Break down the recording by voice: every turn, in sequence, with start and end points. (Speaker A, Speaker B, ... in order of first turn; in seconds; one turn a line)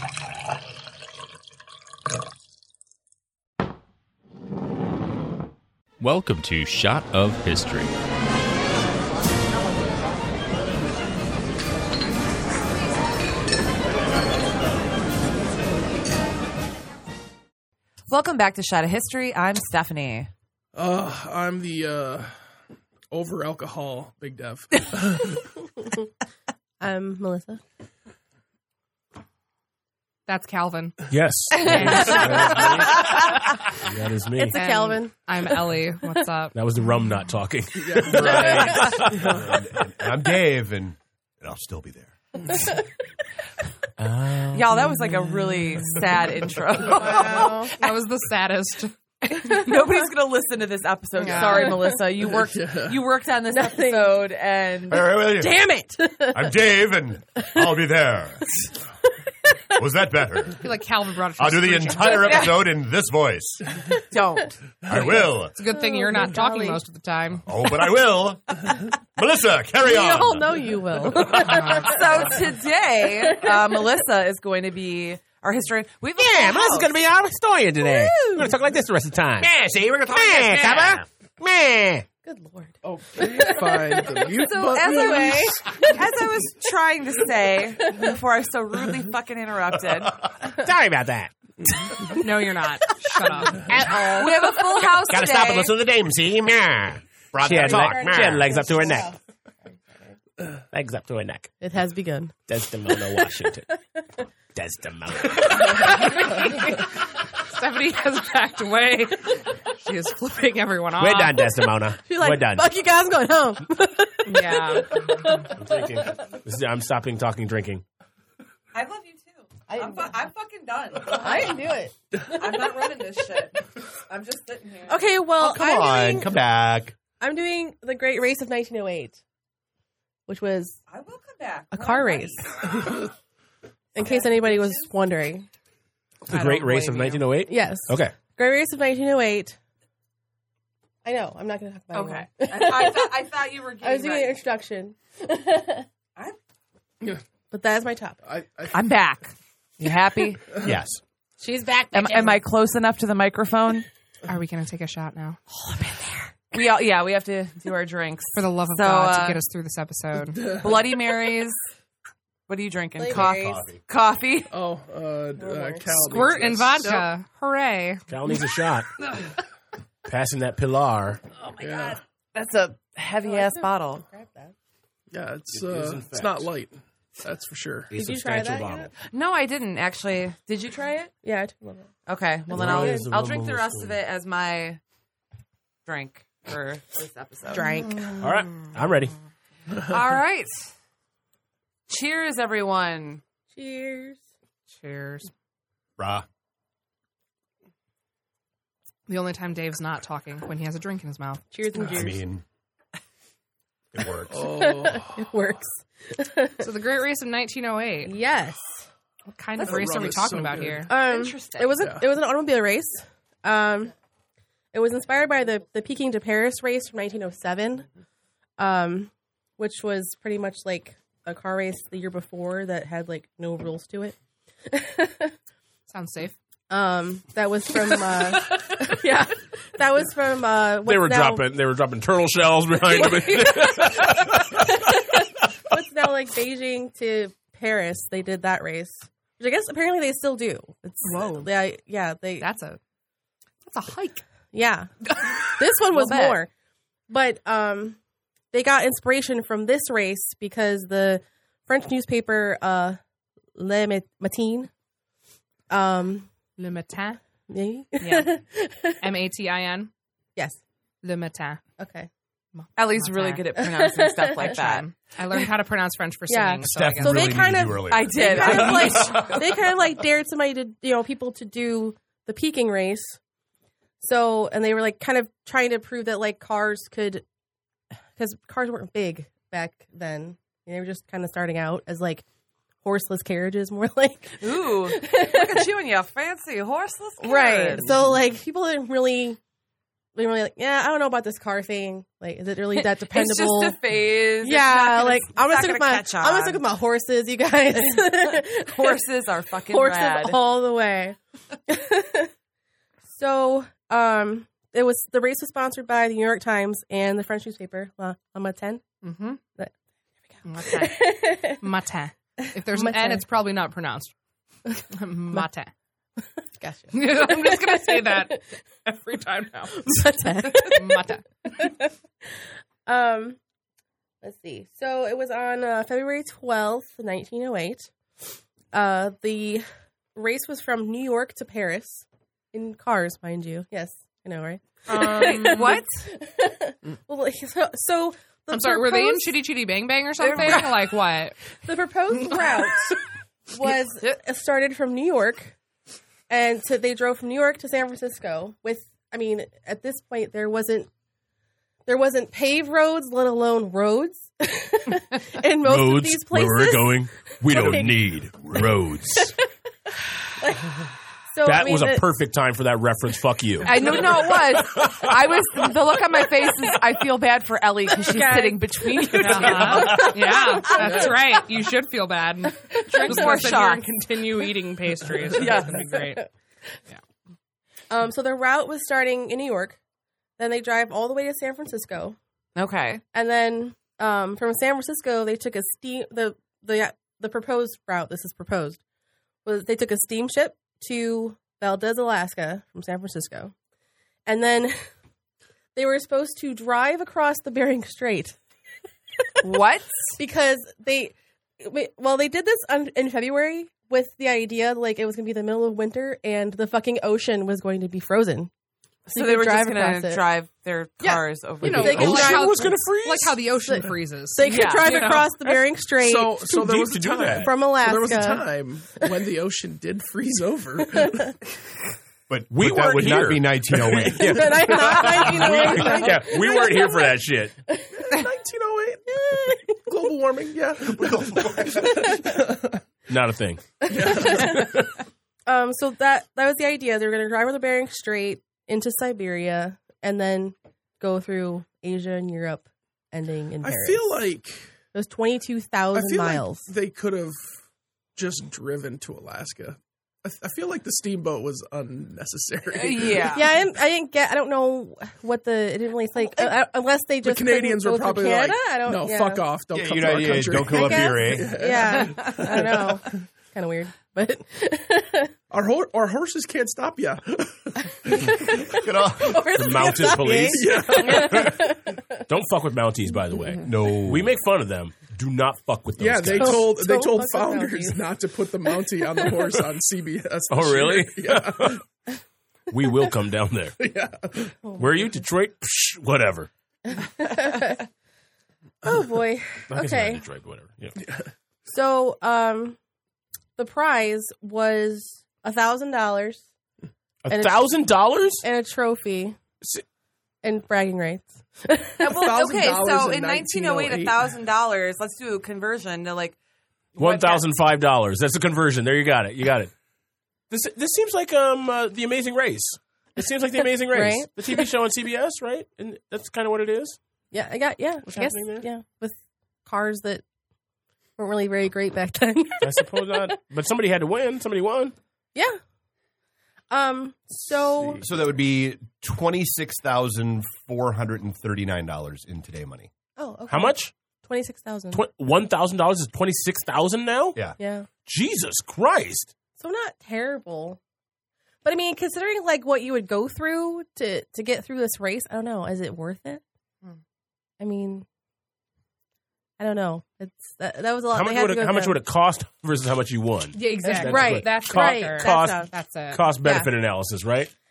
Speaker A: 6.0-8.0
Speaker B: 18.1-20.3
Speaker C: 20.8-22.4
Speaker C: 23.1-25.4
Speaker D: 26.8-27.6
Speaker E: 30.3-31.0
Speaker F: 31.1-33.0
Speaker E: 31.5-33.1
Speaker B: 31.6-32.3
Speaker F: 33.8-34.6
Speaker D: 34.4-35.1
Speaker E: 34.5-36.5
Speaker F: 36.5-39.3
Speaker C: 37.8-39.4
Speaker D: 38.1-39.0
Speaker G: 38.4-42.1
Speaker F: 44.0-45.9
Speaker B: 44.5-48.0
Speaker D: 46.9-47.7
Speaker E: 47.8-49.6
Speaker B: 49.4-55.1
Speaker E: 51.2-51.8
Speaker D: 51.2-52.0
Speaker C: 52.3-53.0
Speaker D: 53.5-54.2
Speaker G: 54.9-55.6
Speaker D: 55.4-56.6
Speaker G: 56.3-58.6
Speaker G: 59.8-60.6
Speaker E: 60.6-62.4
Speaker G: 61.4-63.8
Speaker B: 62.1-62.7
Speaker B: 64.1-64.6
Speaker G: 64.9-65.5
Speaker E: 65.5-67.4
Speaker D: 65.6-66.8
Speaker G: 67.5-70.7
Speaker D: 69.8-72.3
Speaker E: 71.3-72.3
Speaker B: 71.6-76.9
Speaker F: 76.2-82.1
Speaker B: 77.8-78.5
Speaker G: 79.4-81.0
Speaker D: 82.2-86.0
Speaker C: 82.8-85.8
Speaker B: 84.3-90.3
Speaker F: 90.5-91.3
Speaker E: 92.1-93.7
Speaker F: 93.7-99.1
Speaker B: 93.8-95.8
Speaker G: 97.3-98.5
Speaker D: 97.5-100.2
Speaker F: 100.7-101.5
Speaker D: 101.6-102.3
Speaker F: 102.5-103.7
Speaker F: 104.5-105.5
Speaker E: 105.3-111.5
Speaker F: 111.0-112.7
Speaker D: 112.1-116.2
Speaker E: 114.3-115.5
Speaker F: 115.5-117.8
Speaker B: 118.7-121.7
Speaker D: 119.7-120.1
Speaker D: 121.1-122.5
Speaker B: 122.2-125.0
Speaker D: 124.9-126.3
Speaker G: 125.4-127.0
Speaker D: 127.2-129.2
Speaker D: 130.3-130.8
Speaker B: 130.9-133.0
Speaker D: 131.7-132.5
Speaker D: 133.9-135.5
Speaker B: 134.0-134.9
Speaker F: 136.3-138.1
Speaker E: 136.3-137.3
Speaker D: 137.5-139.6
Speaker D: 141.1-143.1
Speaker B: 141.9-144.4
Speaker D: 143.8-145.9
Speaker D: 147.5-148.2
Speaker C: 148.2-148.8
Speaker B: 148.7-150.4
Speaker G: 150.6-151.0
Speaker D: 151.4-152.4
Speaker B: 151.9-153.9
Speaker E: 154.3-155.4
Speaker B: 156.5-159.4
Speaker E: 158.4-160.4
Speaker C: 160.3-160.8
Speaker B: 160.5-161.6
Speaker B: 162.5-164.5
Speaker D: 163.0-163.7
Speaker G: 163.1-163.8
Speaker C: 164.5-167.1
Speaker D: 165.4-166.3
Speaker E: 166.1-168.1
Speaker F: 168.1-168.9
Speaker F: 170.1-171.2
Speaker B: 171.4-174.0
Speaker C: 171.6-172.0
Speaker D: 173.2-174.5
Speaker C: 175.1-177.9
Speaker F: 175.5-176.5
Speaker F: 177.9-178.9
Speaker D: 177.9-178.9
Speaker B: 179.1-181.1
Speaker D: 181.2-181.9
Speaker B: 182.1-184.8
Speaker F: 182.5-184.0
Speaker D: 182.5-183.1
Speaker B: 185.9-188.3
Speaker D: 187.5-188.1
Speaker F: 188.2-189.1
Speaker B: 189.7-190.7
Speaker B: 191.9-193.2
Speaker D: 193.5-194.2
Speaker E: 194.7-195.3
Speaker G: 196.0-196.3
Speaker E: 199.1-201.4
Speaker D: 201.5-202.2
Speaker G: 201.8-202.4
Speaker G: 203.9-204.5
Speaker C: 204.3-205.1
Speaker D: 204.3-206.7
Speaker E: 206.6-208.2
Speaker D: 208.1-208.9
Speaker E: 209.3-210.9
Speaker B: 209.6-210.3
Speaker C: 209.6-210.9
Speaker D: 210.9-213.9
Speaker B: 210.9-211.8
Speaker C: 211.8-212.1
Speaker D: 214.7-217.9
Speaker D: 218.6-224.2
Speaker D: 224.7-225.3
Speaker E: 225.9-226.4
Speaker D: 226.7-231.5
Speaker F: 230.8-234.5
Speaker D: 232.9-242.5
Speaker E: 241.0-241.4
Speaker E: 242.4-242.8
Speaker E: 243.6-244.2
Speaker D: 244.5-244.9
Speaker D: 245.4-246.5
Speaker B: 245.9-246.4
Speaker D: 247.1-248.0
Speaker D: 248.5-253.0
Speaker D: 253.6-254.7
Speaker D: 255.7-256.3
Speaker E: 256.6-257.2
Speaker D: 257.5-259.0
Speaker E: 258.0-258.3
Speaker E: 259.0-259.9
Speaker E: 261.0-261.6
Speaker D: 261.8-262.1
Speaker E: 262.6-263.5
Speaker B: 262.8-265.5
Speaker D: 263.6-264.6
Speaker E: 264.4-267.5
Speaker D: 266.3-273.2
Speaker G: 266.7-269.6
Speaker B: 267.9-269.2
Speaker D: 274.0-277.2
Speaker D: 278.2-282.2
Speaker D: 282.8-285.7
Speaker B: 284.4-288.1
Speaker D: 287.2-289.4
Speaker D: 290.1-293.8
Speaker B: 292.8-296.6
Speaker D: 294.4-299.0
Speaker B: 298.0-300.4
Speaker D: 299.7-301.2
Speaker D: 301.7-302.3
Speaker D: 303.1-308.8
Speaker E: 309.0-309.4
Speaker D: 310.3-311.6
Speaker E: 310.4-314.1
Speaker D: 312.4-313.2
Speaker E: 314.9-315.7
Speaker D: 316.6-318.4
Speaker E: 316.9-321.3
Speaker D: 319.7-321.9
Speaker D: 322.9-323.4
Speaker D: 324.2-327.9
Speaker D: 328.7-339.3
Speaker B: 334.9-336.1
Speaker E: 334.9-335.6
Speaker E: 338.5-341.4
Speaker B: 340.2-340.9
Speaker D: 340.3-340.7
Speaker D: 341.6-342.9
Speaker D: 343.5-345.6
Speaker D: 346.3-350.9
Speaker D: 351.9-358.0
Speaker F: 355.6-359.4
Speaker G: 357.5-358.7
Speaker D: 359.1-359.4
Speaker D: 360.4-360.7
Speaker D: 361.3-362.1
Speaker F: 361.4-363.8
Speaker B: 363.6-370.1
Speaker D: 368.0-370.9
Speaker E: 369.2-376.3
Speaker C: 370.8-371.2
Speaker D: 372.8-373.4
Speaker B: 373.0-373.9
Speaker B: 375.3-375.9
Speaker D: 377.9-379.8
Speaker D: 380.4-382.2
Speaker B: 382.6-383.0
Speaker D: 383.1-388.8
Speaker D: 389.4-393.5
Speaker D: 394.3-394.9
Speaker D: 395.8-398.4
Speaker B: 399.4-400.2
Speaker D: 400.2-408.5
Speaker D: 409.1-410.2
Speaker B: 409.1-412.4
Speaker E: 411.6-415.5
Speaker D: 411.7-412.8
Speaker F: 411.7-413.4
Speaker D: 413.7-416.5
Speaker B: 414.5-415.1
Speaker C: 416.0-421.3
Speaker F: 416.4-417.5
Speaker D: 417.4-418.4
Speaker D: 420.9-421.3
Speaker G: 422.3-424.4
Speaker F: 422.5-427.6
Speaker D: 424.1-427.2
Speaker C: 425.4-426.2
Speaker D: 427.7-428.2
Speaker C: 427.9-432.8
Speaker D: 429.1-429.8
Speaker G: 430.9-432.1
Speaker D: 431.9-432.4
Speaker F: 433.1-434.6
Speaker D: 433.8-434.8
Speaker C: 433.9-434.8
Speaker D: 435.5-444.1
Speaker C: 443.6-444.7
Speaker D: 444.9-446.7
Speaker C: 445.9-447.6
Speaker C: 448.2-453.4
Speaker B: 452.7-453.5
Speaker D: 453.3-459.4
Speaker C: 457.2-463.1
Speaker G: 459.7-461.6
Speaker D: 460.6-465.3
Speaker C: 465.5-468.3
Speaker D: 468.0-472.0
Speaker G: 468.6-469.8
Speaker F: 469.5-471.6
Speaker C: 470.0-471.7
Speaker F: 472.2-476.7
Speaker G: 473.6-474.3
Speaker C: 476.0-481.8
Speaker D: 476.4-478.0
Speaker F: 480.5-481.8
Speaker F: 482.7-483.8
Speaker C: 483.8-484.6
Speaker D: 484.6-485.1
Speaker F: 484.8-486.5
Speaker D: 486.9-487.8
Speaker D: 488.8-490.2
Speaker F: 489.7-491.0
Speaker C: 491.0-491.3
Speaker D: 491.7-492.8
Speaker D: 493.6-496.4
Speaker F: 497.2-498.4
Speaker D: 497.3-497.7
Speaker D: 498.4-499.4
Speaker D: 500.4-502.2
Speaker B: 502.0-506.4
Speaker C: 502.0-504.2
Speaker F: 507.0-509.7
Speaker B: 507.0-507.4
Speaker F: 510.5-517.0
Speaker D: 513.8-514.3
Speaker D: 517.3-520.2
Speaker F: 518.0-518.7
Speaker D: 521.2-523.3
Speaker F: 522.6-525.0
Speaker D: 526.7-528.0
Speaker C: 527.5-528.0
Speaker G: 528.0-532.9
Speaker D: 533.2-535.0
Speaker F: 533.5-533.9
Speaker F: 534.9-537.4
Speaker D: 537.6-537.9
Speaker F: 538.1-539.3
Speaker D: 539.6-540.8
Speaker D: 541.6-546.4
Speaker D: 547.6-548.1
Speaker D: 549.6-552.0
Speaker F: 551.1-557.5
Speaker E: 553.5-556.2
Speaker D: 553.8-555.7
Speaker D: 556.4-556.7